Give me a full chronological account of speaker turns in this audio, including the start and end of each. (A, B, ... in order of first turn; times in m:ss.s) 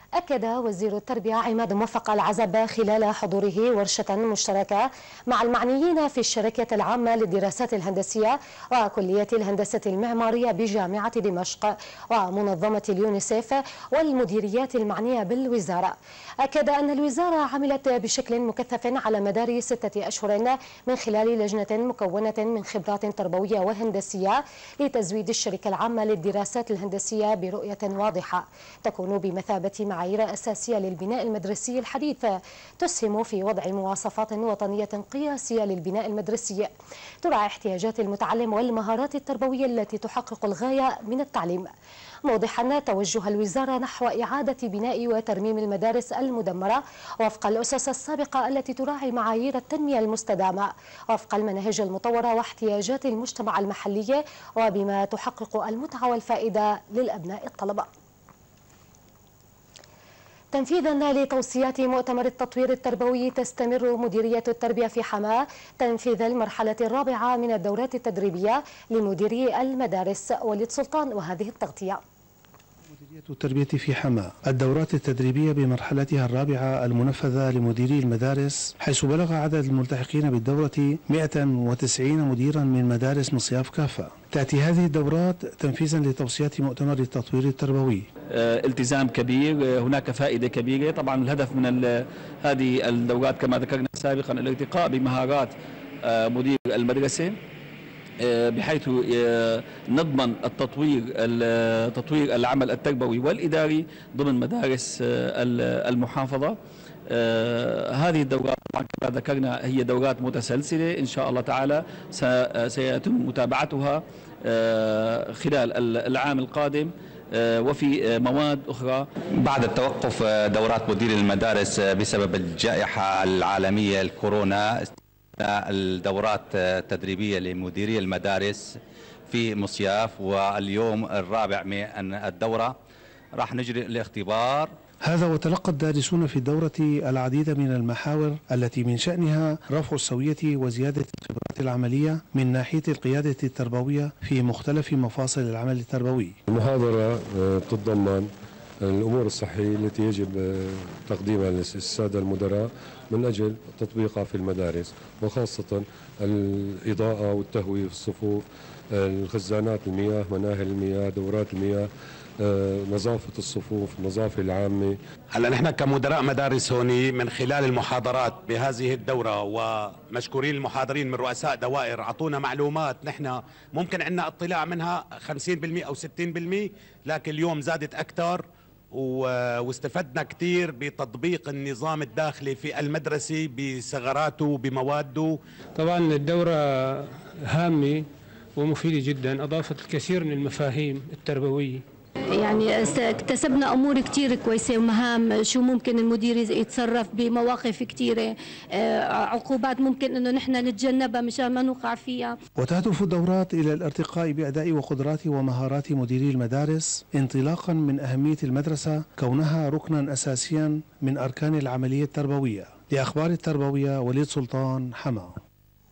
0:00.2-0:36.7 A
0:37.2-0:41.7 A
0:42.3-0:57.9 A
1:00.5-1:12.0 A
1:12.9-1:28.0 B
1:28.3-1:37.4 C
1:38.2-1:46.6 C
1:47.1-1:59.1 C
1:59.3-2:12.8 D
2:13.3-2:14.8 D
2:15.1-2:26.4 B
2:26.5-2:28.3 E
2:28.8-2:41.9 E
2:42.4-2:45.0 E
2:45.3-3:05.4 F
3:05.8-3:11.8 G
3:12.3-3:22.4 H
3:22.6-3:35.4 B